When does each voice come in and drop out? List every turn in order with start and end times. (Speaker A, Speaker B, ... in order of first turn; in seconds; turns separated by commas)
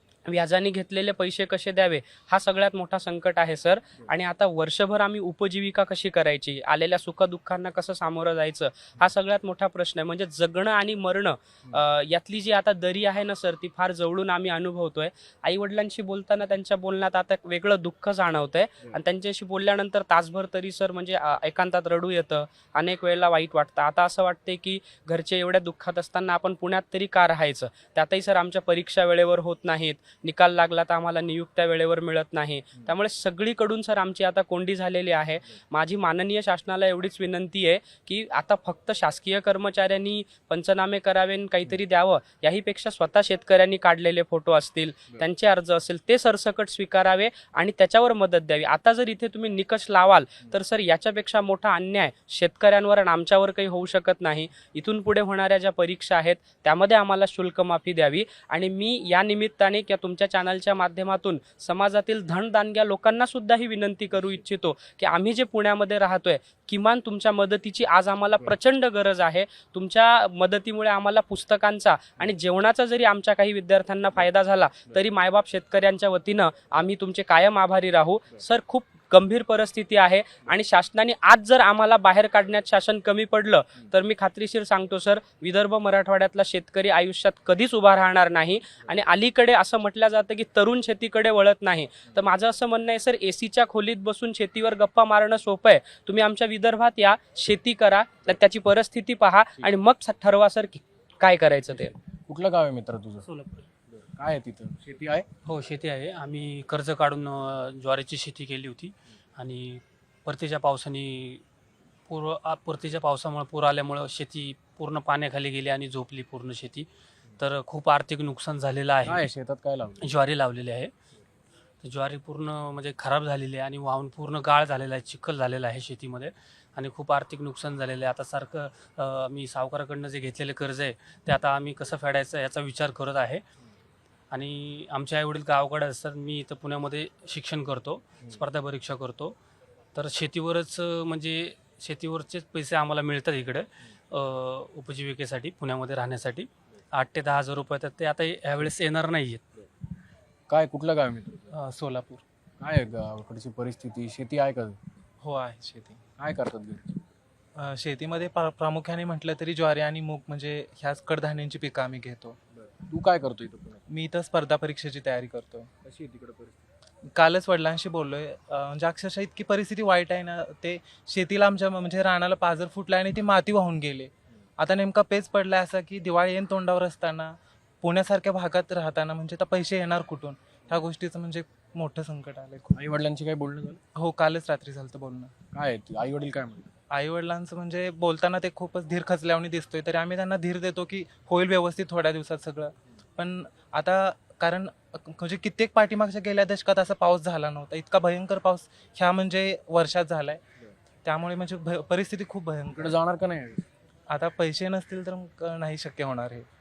Speaker A: 0.3-101.9, Speaker B: 102.3-103.3, Speaker C: 103.3-103.7, Speaker B: 104.0-105.3, Speaker C: 105.5-111.4, Speaker C: 112.1-116.9, Speaker C: 117.4-119.2, Speaker B: 119.0-120.1, Speaker C: 120.0-120.9, Speaker C: 121.8-133.4, Speaker C: 134.3-139.4, Speaker C: 139.9-149.4, Speaker B: 150.5-151.5, Speaker D: 151.5-152.2, Speaker B: 152.6-154.8, Speaker D: 155.2-156.0, Speaker B: 156.2-157.0, Speaker D: 157.6-162.4, Speaker B: 162.6-163.8, Speaker D: 163.9-165.7, Speaker B: 165.8-166.6, Speaker D: 167.1-182.8, Speaker B: 182.7-183.8, Speaker D: 183.9-185.3, Speaker B: 185.5-186.7, Speaker D: 186.9-200.4, Speaker D: 201.0-202.9, Speaker B: 202.7-203.7, Speaker D: 204.1-206.5